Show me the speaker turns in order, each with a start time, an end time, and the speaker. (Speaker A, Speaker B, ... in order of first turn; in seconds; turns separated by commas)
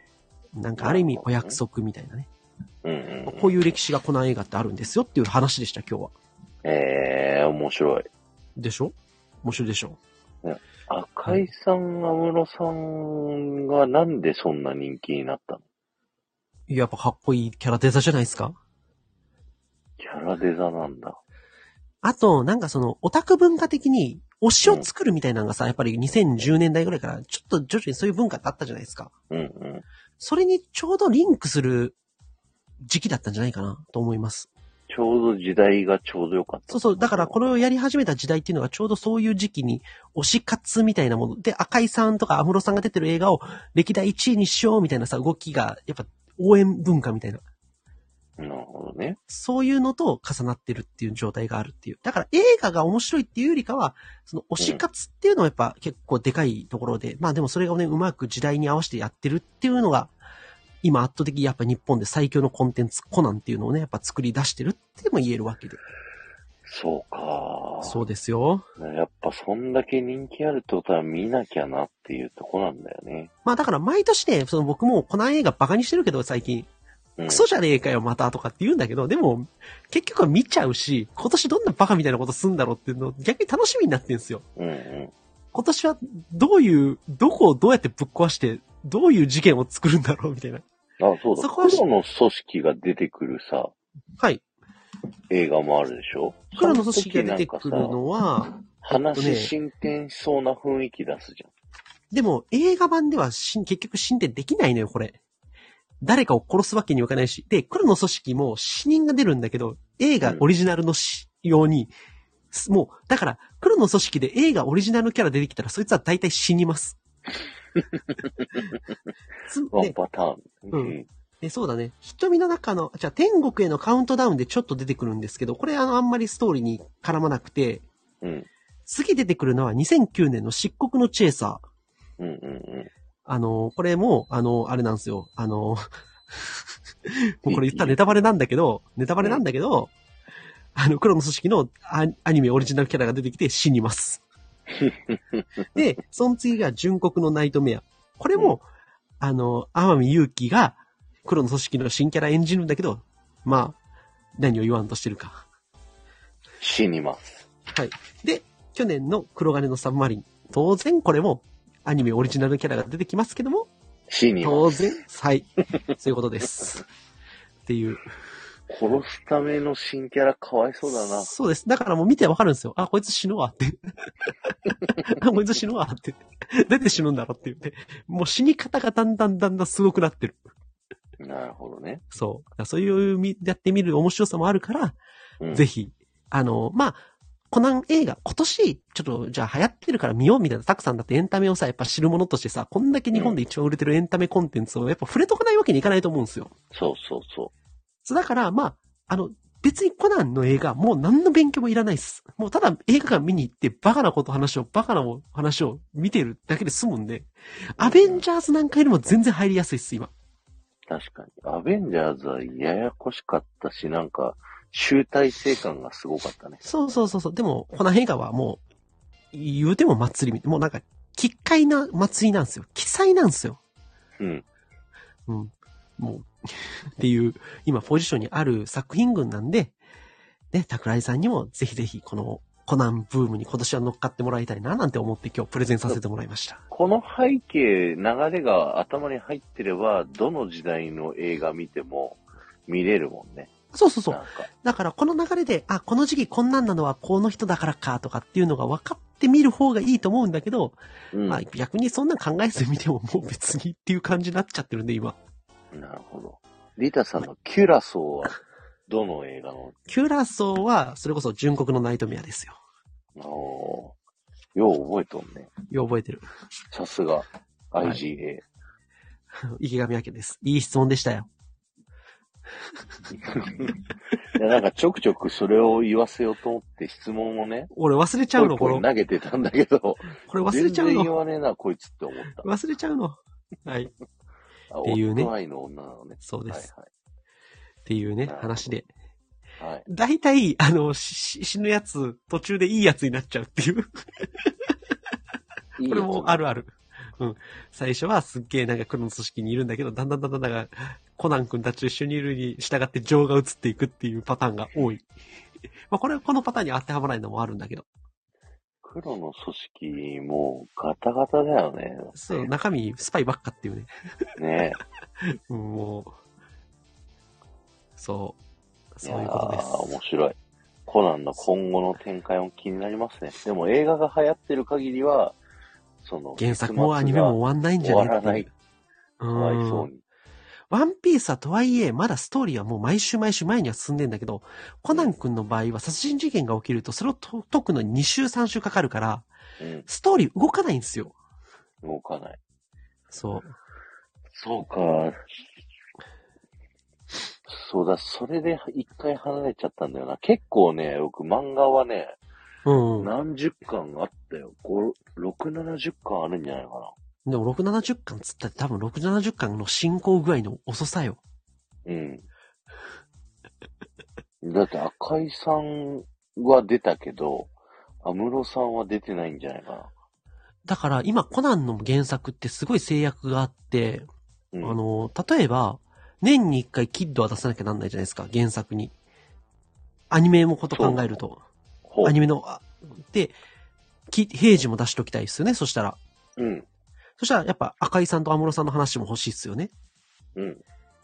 Speaker A: 0.6-2.3, Speaker B: 0.8-1.6, Speaker B: 2.8-3.6, Speaker A: 3.3-6.1, Speaker B: 6.6-8.1, Speaker A: 8.6-10.0, Speaker B: 10.4-15.6, Speaker A: 16.7-18.6, Speaker B: 20.0-21.2, Speaker A: 22.0-29.1, Speaker B: 29.3-29.8, Speaker A: 30.2-32.0, Speaker A: 32.8-34.5, Speaker B: 34.9-37.5, Speaker A: 36.7-47.4, Speaker B: 48.4-49.2, Speaker A: 49.3-60.1, Speaker A: 60.8-65.8, Speaker B: 66.7-68.0, Speaker A: 67.8-68.7, Speaker B: 68.8-73.3, Speaker A: 73.5-76.7, Speaker B: 77.2-77.5, Speaker A: 77.3-84.4, Speaker B: 84.6-85.1, Speaker A: 85.5-90.7, Speaker B: 91.0-93.7, Speaker A: 91.4-91.8, Speaker B: 95.3-98.0, Speaker A: 96.6-99.5, Speaker B: 98.8-101.5, Speaker A: 102.1-105.2, Speaker A: 106.0-111.9, Speaker A: 112.5-117.0, Speaker B: 117.8-118.8, Speaker A: 119.5-120.0, Speaker B: 119.7-121.1, Speaker A: 120.7-127.8, Speaker B: 128.2-128.5, Speaker A: 128.9-131.6, Speaker B: 132.2-132.9, Speaker A: 133.3-139.9, Speaker B: 137.5-138.0, Speaker A: 140.8-144.2, Speaker B: 144.8-145.4, Speaker A: 145.7-148.6, Speaker A: 149.2-153.8, Speaker A: 154.4-155.4, Speaker B: 156.6-157.4, Speaker A: 157.7-163.7, Speaker B: 164.1-165.0, Speaker A: 164.4-166.8, Speaker A: 167.7-168.1, Speaker B: 168.7-171.3, Speaker A: 171.0-180.4, Speaker B: 181.2-182.0, Speaker A: 182.1-185.0, Speaker A: 185.5-187.0, Speaker A: 187.5-196.5, Speaker B: 193.1-193.4, Speaker B: 196.7-197.5, Speaker A: 198.1-210.1, Speaker B: 207.8-208.2, Speaker B: 210.9-216.6, Speaker A: 216.6-218.6, Speaker A: 219.3-223.6, Speaker B: 224.2-224.4, Speaker A: 225.3-229.8, Speaker A: 230.5-236.6, Speaker B: 236.7-243.5, Speaker A: 243.7-255.2, Speaker B: 244.1-244.5, Speaker B: 251.1-251.4, Speaker B: 255.7-259.8, Speaker A: 259.9-262.6, Speaker B: 263.2-264.0, Speaker B: 264.6-265.5, Speaker A: 265.7-266.3, Speaker B: 266.7-268.4, Speaker A: 269.5-271.3, Speaker B: 273.3-273.7, Speaker B: 274.3-277.7, Speaker A: 277.7-278.9, Speaker B: 278.4-282.5, Speaker A: 280.3-281.1, Speaker A: 282.4-283.9, Speaker B: 284.7-286.9, Speaker A: 284.9-285.3, Speaker A: 286.2-286.7, Speaker A: 287.9-288.9, Speaker B: 288.3-288.6, Speaker B: 289.6-289.9, Speaker A: 289.9-294.8, Speaker B: 295.8-296.4, Speaker A: 295.9-305.1, Speaker A: 305.9-307.9, Speaker B: 308.8-312.4, Speaker A: 312.1-313.9, Speaker B: 314.4-314.8, Speaker A: 315.2-316.2, Speaker A: 318.0-318.4, Speaker A: 319.0-319.7, Speaker B: 319.0-325.4, Speaker B: 326.0-328.5, Speaker A: 326.4-328.5, Speaker A: 329.2-329.9, Speaker B: 329.3-330.0, Speaker A: 330.7-339.3, Speaker B: 339.6-339.9, Speaker A: 339.9-341.1, Speaker B: 341.8-342.4, Speaker A: 343.1-343.6, Speaker B: 344.3-345.2, Speaker B: 347.5-352.2, Speaker A: 352.6-353.1, Speaker B: 353.0-356.9, Speaker A: 357.3-361.2, Speaker B: 361.9-362.3, Speaker B: 364.4-367.5, Speaker B: 368.0-369.9, Speaker A: 370.7-374.1, Speaker B: 374.5-374.8, Speaker A: 374.6-378.9, Speaker A: 380.1-381.4, Speaker B: 380.7-381.0, Speaker B: 381.9-382.2, Speaker A: 382.0-383.4, Speaker A: 384.1-386.0, Speaker B: 386.4-386.7, Speaker A: 387.2-389.7, Speaker B: 390.4-390.6